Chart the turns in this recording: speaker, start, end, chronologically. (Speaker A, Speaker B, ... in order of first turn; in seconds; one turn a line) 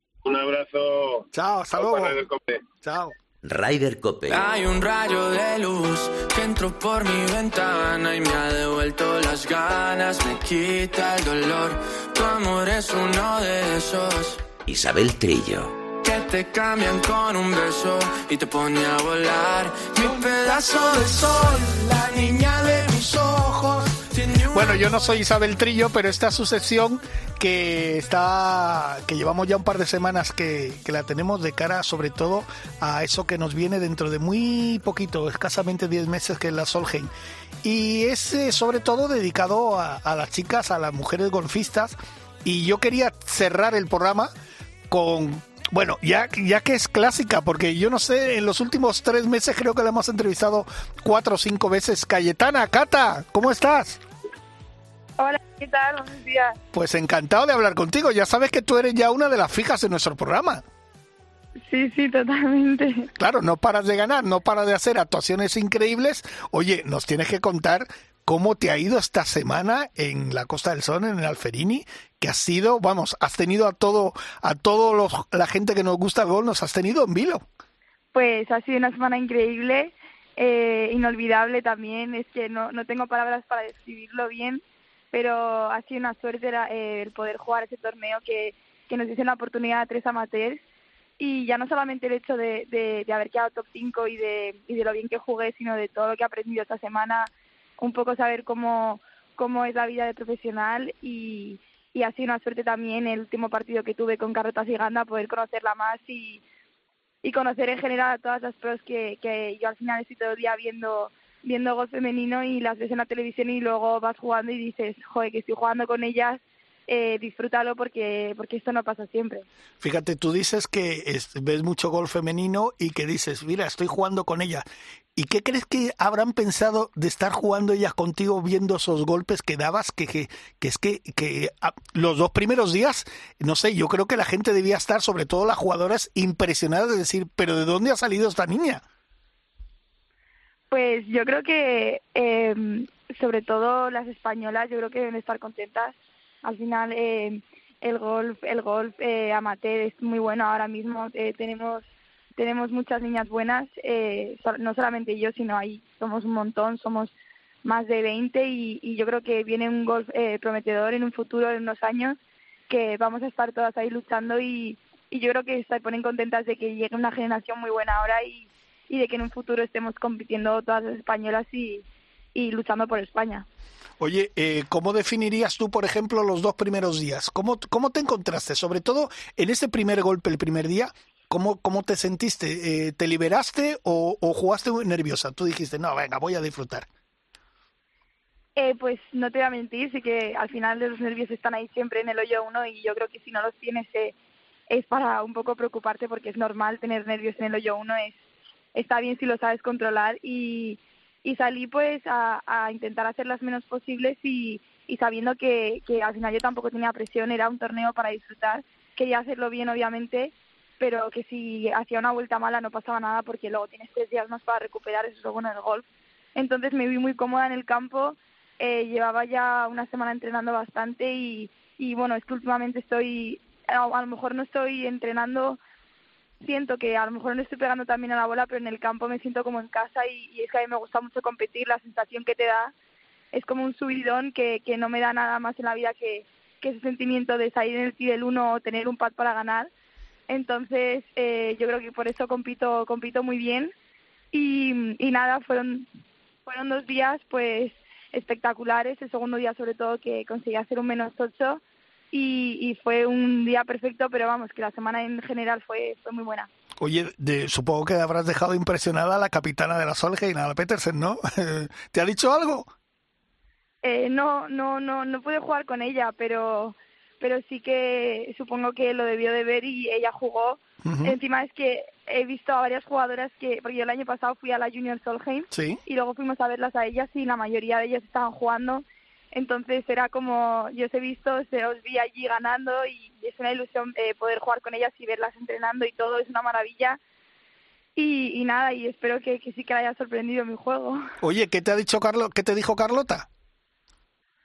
Speaker A: 0.2-2.6
Speaker B: 1.3-2.2
Speaker B: 2.8-3.1
Speaker C: 3.4-4.5
Speaker D: 4.3-14.4
Speaker C: 14.7-15.8
Speaker D: 16.0-21.3
Speaker B: 20.0-37.1
Speaker D: 24.1-24.8
Speaker B: 37.6-44.3
Speaker B: 44.9-54.0
Speaker E: 55.2-56.6
Speaker B: 56.7-60.6
Speaker E: 61.6-63.1
Speaker B: 63.2-77.5
Speaker E: 78.1-84.6
Speaker E: 85.1-90.6
Speaker E: 91.2-106.4
Speaker E: 107.2-119.5
Speaker B: 119.8-138.8
Speaker E: 140.7-157.1
Speaker E: 157.6-162.2
Speaker E: 162.7-173.5
Speaker B: 174.0-186.9
Speaker E: 188.6-194.1
Speaker E: 194.7-198.2
Speaker E: 198.8-225.6
Speaker E: 226.4-232.7
Speaker E: 233.3-239.7
Speaker E: 240.3-243.7
Speaker E: 244.3-245.9
Speaker E: 246.5-251.6
Speaker E: 252.1-256.5
Speaker B: 256.8-262.7
Speaker E: 263.8-287.0
Speaker B: 270.8-271.2
Speaker B: 275.5-275.8
Speaker E: 288.0-291.1
Speaker B: 291.2-293.3